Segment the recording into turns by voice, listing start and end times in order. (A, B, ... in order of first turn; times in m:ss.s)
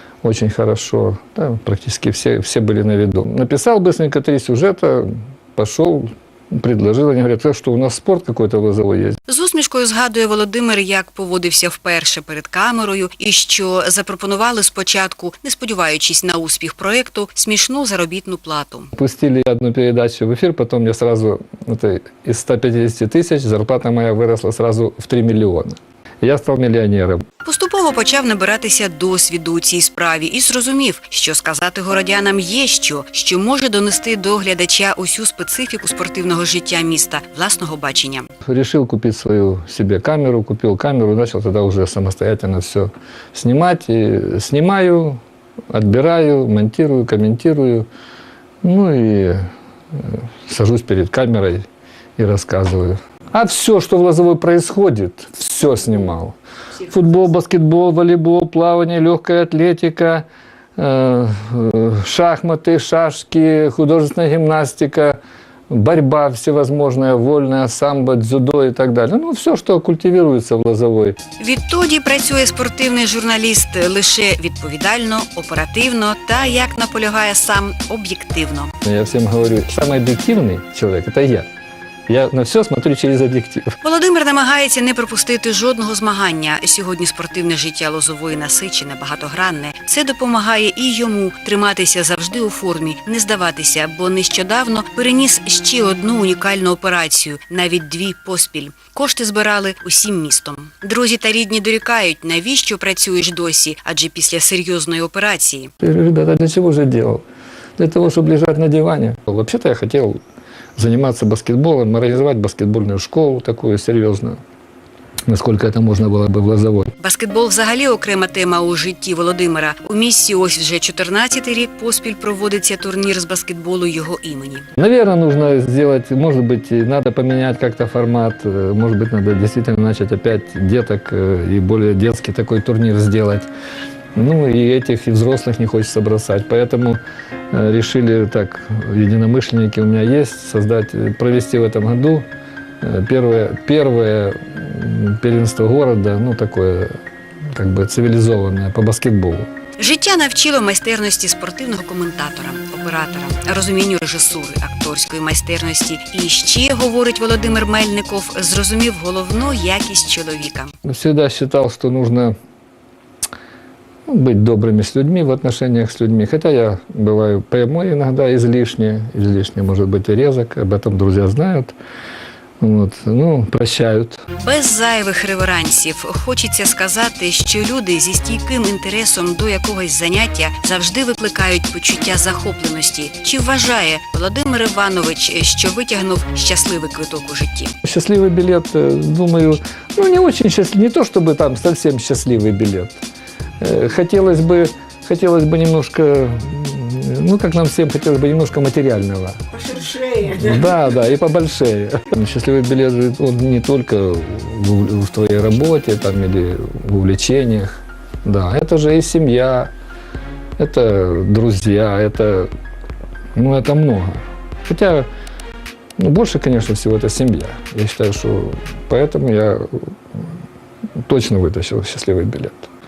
0:00.2-0:09.2 A
0:09.3-0:18.9 B
0:19.0-0:27.2 A
0:27.4-0:38.3 B
0:38.4-0:45.2 A
0:45.7-0:47.9 A
0:48.6-0:51.6 A
0:52.2-1:00.2 A
1:00.8-1:11.2 A
1:11.4-1:18.7 B
1:18.8-1:21.5 A
1:22.1-1:23.8 A
1:23.8-1:45.7 B
1:45.8-1:47.2 A
1:47.8-1:50.2 A
1:50.8-1:54.4 A
1:55.3-1:56.9 A
1:57.0-2:04.7 B
2:04.8-2:13.5 A
2:14.2-2:17.0 A
2:17.5-2:22.2 A
2:22.8-2:26.9 A
2:27.5-2:29.5 A
2:29.8-2:40.7 B
2:40.8-2:42.3 A
2:44.1-2:51.7 A
2:52.6-2:54.2 A
2:54.4-3:07.7 B
3:07.8-3:12.9 A
3:13.6-3:19.4 A
3:19.6-3:20.4 B
3:20.3-3:29.7 A
3:30.6-3:32.5 A
3:33.4-3:35.1 A
3:36.0-3:39.8 A
3:41.0-3:42.7 A